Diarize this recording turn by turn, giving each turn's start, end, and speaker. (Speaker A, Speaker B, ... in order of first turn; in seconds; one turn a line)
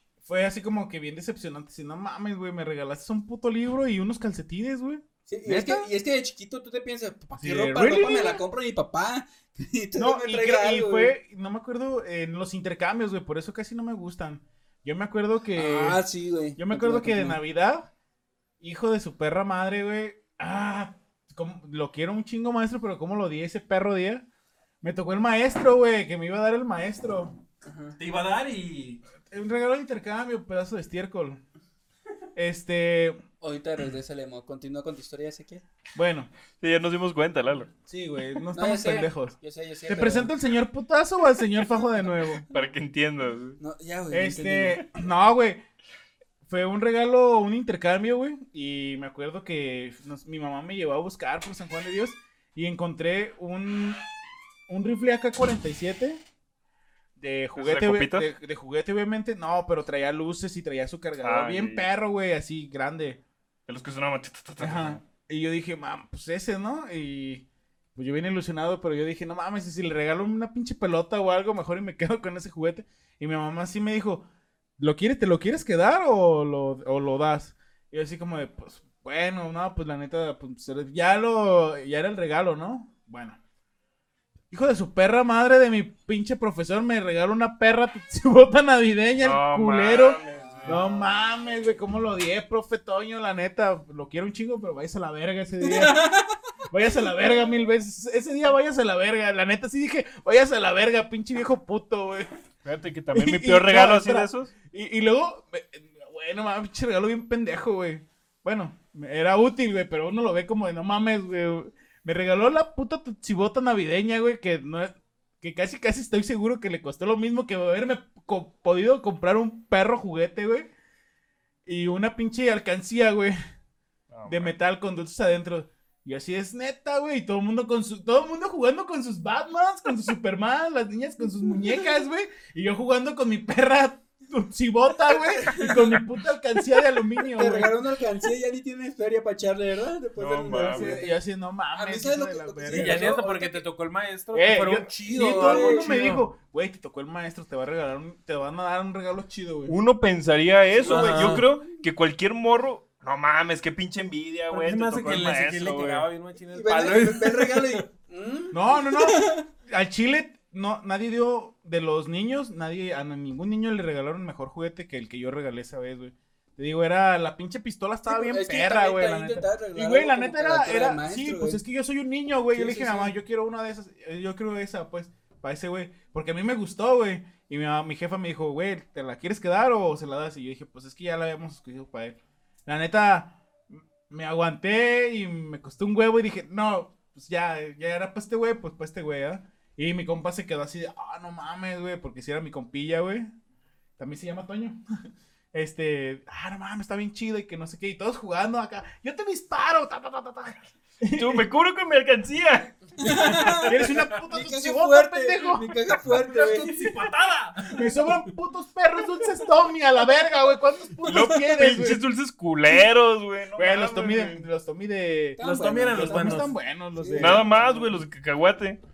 Speaker A: 0.2-5.9
Speaker B: 5.3-11.1
Speaker A: 7.3-8.4
Speaker A: 9.9-16.0
Speaker B: 15.5-17.4
Speaker A: 16.6-17.9
Speaker A: 18.6-24.2
Speaker A: 24.8-27.3
Speaker B: 27.6-28.0
Speaker C: 28.0-29.0
Speaker A: 29.3-31.4
Speaker A: 32.3-33.2
Speaker B: 33.4-35.6
Speaker A: 35.9-36.3
Speaker D: 36.6-37.7
Speaker A: 37.9-39.3
Speaker B: 38.5-40.3
Speaker A: 39.9-42.4
Speaker D: 42.5-43.6
Speaker B: 43.6-44.8
Speaker A: 44.1-45.6
Speaker A: 46.5-54.0
Speaker A: 54.7-56.2
Speaker A: 57.2-63.2
Speaker D: 57.5-58.3
Speaker D: 61.2-61.9
Speaker D: 63.7-65.0
Speaker A: 64.6-74.2
Speaker A: 74.8-83.4
Speaker A: 84.5-96.1
Speaker D: 89.2-90.8
Speaker B: 89.9-91.2
Speaker B: 95.6-96.4
Speaker A: 96.7-102.3
Speaker D: 102.6-104.5
Speaker A: 103.1-120.7
Speaker A: 121.7-123.3
Speaker D: 124.1-124.5
Speaker A: 124.2-137.8
Speaker B: 135.0-136.0
Speaker B: 137.2-141.2
Speaker D: 140.2-141.0
Speaker A: 140.6-143.2
Speaker B: 141.7-143.6
Speaker C: 142.7-146.2
Speaker A: 144.3-149.8
Speaker B: 145.2-145.9
Speaker D: 149.7-156.1
Speaker C: 150.8-151.5
Speaker B: 150.8-151.4
Speaker C: 154.5-157.8
Speaker B: 156.5-159.4
Speaker A: 158.5-193.3
Speaker B: 168.1-171.6
Speaker B: 172.5-173.1
Speaker A: 194.0-194.8
Speaker A: 195.5-201.4
Speaker D: 201.2-203.3
Speaker B: 203.0-203.7
Speaker A: 203.2-212.0
Speaker B: 204.3-206.9
Speaker C: 207.6-208.1
Speaker D: 211.0-214.5
Speaker A: 213.5-217.7
Speaker B: 215.4-217.6
Speaker C: 215.4-216.5
Speaker D: 217.2-218.8